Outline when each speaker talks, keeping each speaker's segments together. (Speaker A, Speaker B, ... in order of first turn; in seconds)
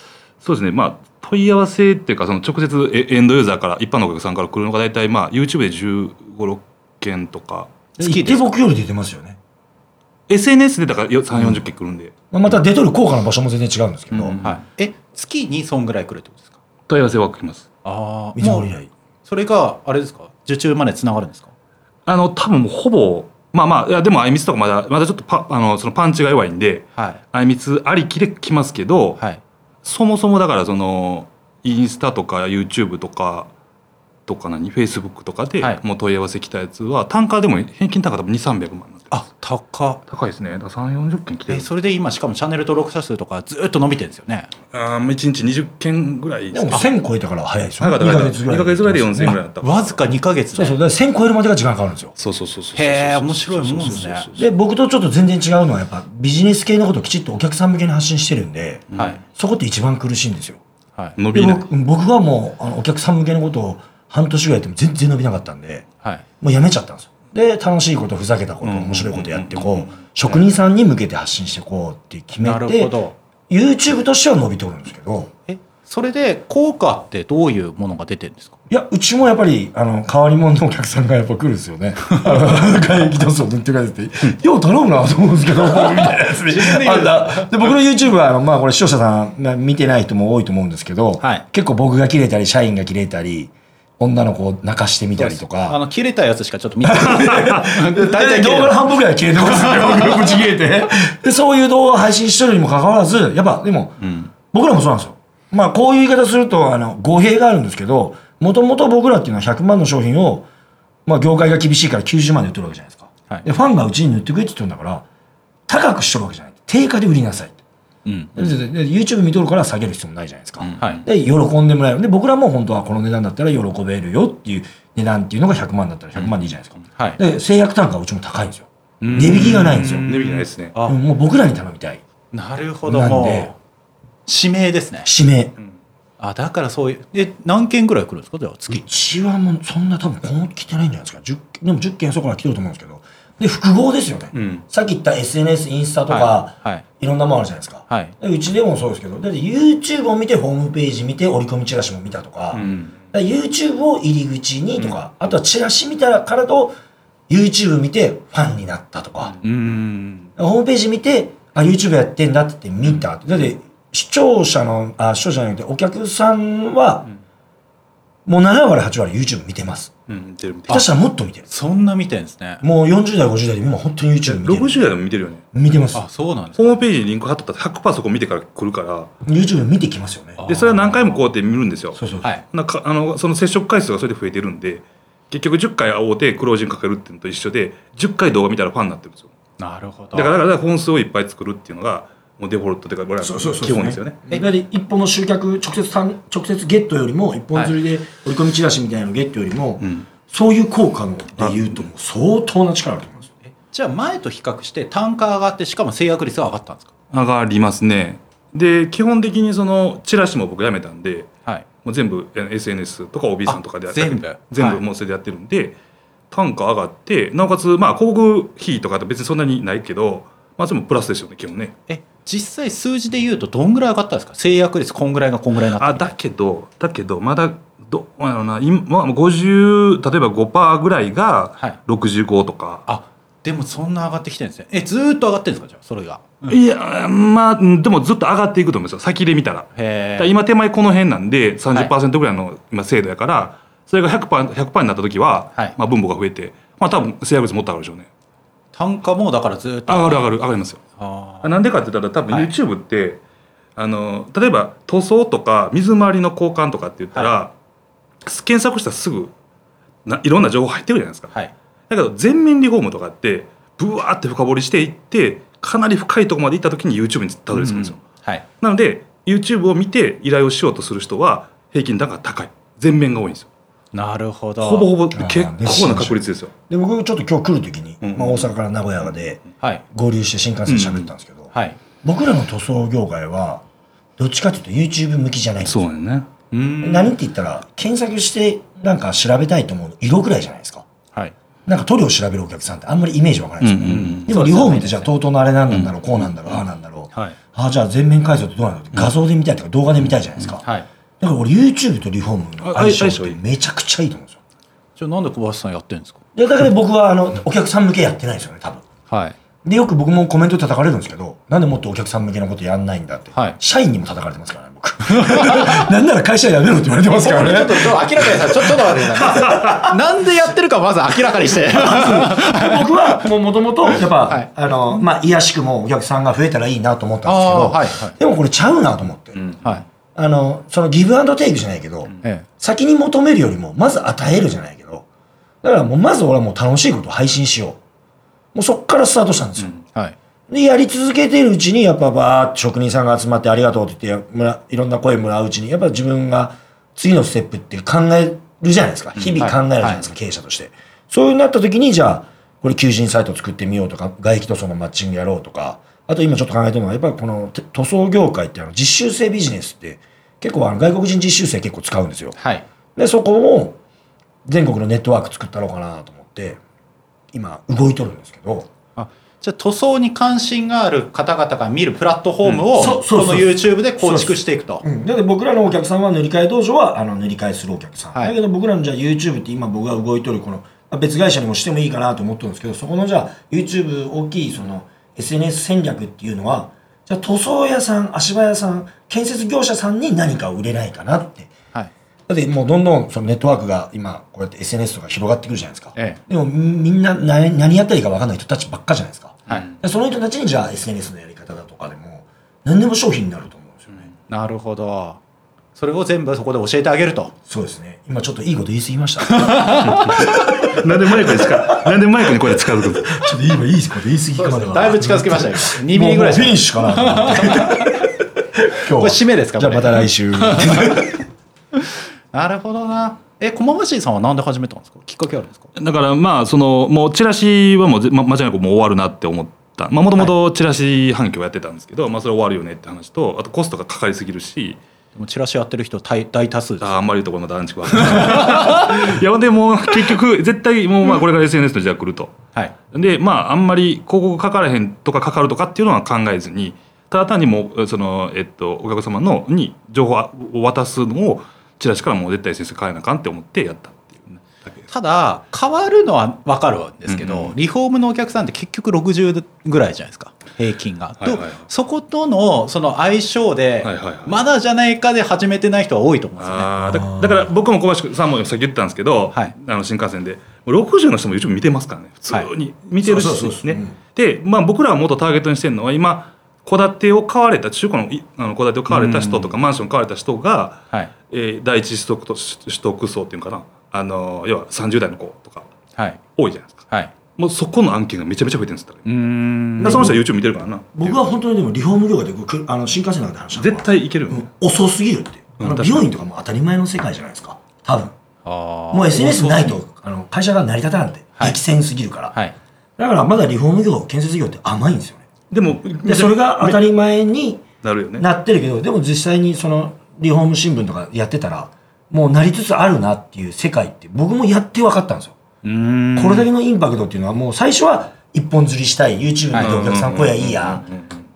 Speaker A: 0.4-7.7, 10.3-12.1, 14.2-14.6, 16.9-17.7, 22.1-29.2, 29.8-33.5, 34.3-39.3, 40.1-41.7, 44.7-46.9, 47.8-50.0, 52.2-54.5, 58.9-59.2, 61.2-61.7, 68.6-69.9, 129.4-130.8, 144.3-144.6, 152.5-152.9, 170.1-170.9, 174.2-175.4, 176.6-179.1, 180.5-189.3, 190.1-194.2, 199.8-200.1, 201.4-201.7, 207.1-211.3, 211.8-215.8, 216.3-221.7, 225.7-232.8, 236.5-248.1, 249.9-250.8, 251.4-253.2, 253.8-257.5, 258.2-259.3, 260.1-261.3, 261.9-268.0, 268.6-273.5, 274.6-276.5, 278.0-278.5, 280.6-281.1, 285.6-286.3, 293.6-294.6, 295.7-297.4, 302.6-303.4, 409.8-413.2, 425.8-434.8, 436.8-442.3, 442.9-454.8, 457.1-457.6, 461.2-461.7, 463.8-464.4, 466.4-485.7, 486.4-486.8, 487.3-489.1, 489.7-491.2, 493.5-494.5, 495.6-496.1, 505.5-506.8, 507.8-508.2, 519.6-521.2
Speaker B: 8.0-9.4, 11.3-11.6, 12.3-14.3, 18.4-18.9, 46.5-49.4, 50.5-52.1, 54.4-60.6, 61.3-65.8, 66.4-73.0, 73.5-75.3, 78.7-95.8, 96.8-110.5, 111.0-115.0, 115.7-117.6, 118.3-130.1, 130.8-132.0, 132.8-133.5, 135.0-135.5, 138.7-156.8, 157.3-159.3, 160.4-167.1, 168.2-169.9, 170.7-171.5, 172.6-174.9, 175.5-176.0, 179.2-180.4, 181.9-182.3, 193.2-203.3, 275.1-281.5, 282.0-283.6, 284.2-285.9, 286.8-290.9, 291.6-300.6, 301.2-304.4, 306.3-308.8, 309.6-319.9, 321.7-329.5, 330.1-335.0, 335.6-337.8, 338.5-339.7, 340.5-362.4, 362.9-363.8, 364.4-366.6, 367.3-368.7, 372.7-391.5, 392.3-404.1, 407.4-409.8, 410.3-411.7, 413.1-421.2, 466.9-467.5, 473.0-474.0, 489.8-490.2, 490.9-498.1, 498.9-502.3, 503.0-505.2, 506.0-507.6, 508.2-515.4, 516.1-520.8
Speaker C: 8.0-8.4, 14.1-16.5, 17.8-18.7, 19.2-21.5, 39.1-40.0, 41.5-44.5, 49.6-50.7, 52.7-54.3, 59.0-59.2, 72.4-73.2, 75.5-78.6, 85.8-87.7, 95.2-100.3, 104.0-104.3, 118.0-118.5, 120.6-121.1, 129.0-131.0, 132.3-133.6, 134.2-135.1, 136.2-138.8, 146.1-146.8, 159.4-160.3, 171.5-172.6, 175.9-176.6, 180.4-181.2, 189.6-190.3, 203.4-206.9, 213.5-214.8, 221.9-226.1, 232.9-236.6, 239.8-240.3, 248.7-250.3, 251.0-251.6, 267.5-268.4, 273.9-274.9, 281.5-281.8, 286.5-287.1, 293.9-295.1, 304.9-306.2, 309.1-309.4, 315.3-315.8, 317.1-322.9, 324.1-325.0, 327.2-328.1, 329.5-329.9, 332.2-332.4, 339.6-340.1, 349.2-350.0, 362.4-362.6, 369.0-374.8, 403.9-405.2, 405.8-407.3, 409.3-410.2, 414.4-418.0, 418.9-421.2, 421.8-425.7, 435.1-437.0, 437.9-438.8, 454.9-466.7, 478.9-479.6, 486.9-487.1, 489.1-490.1, 498.4-499.8, 515.6-516.5, 519.5-519.8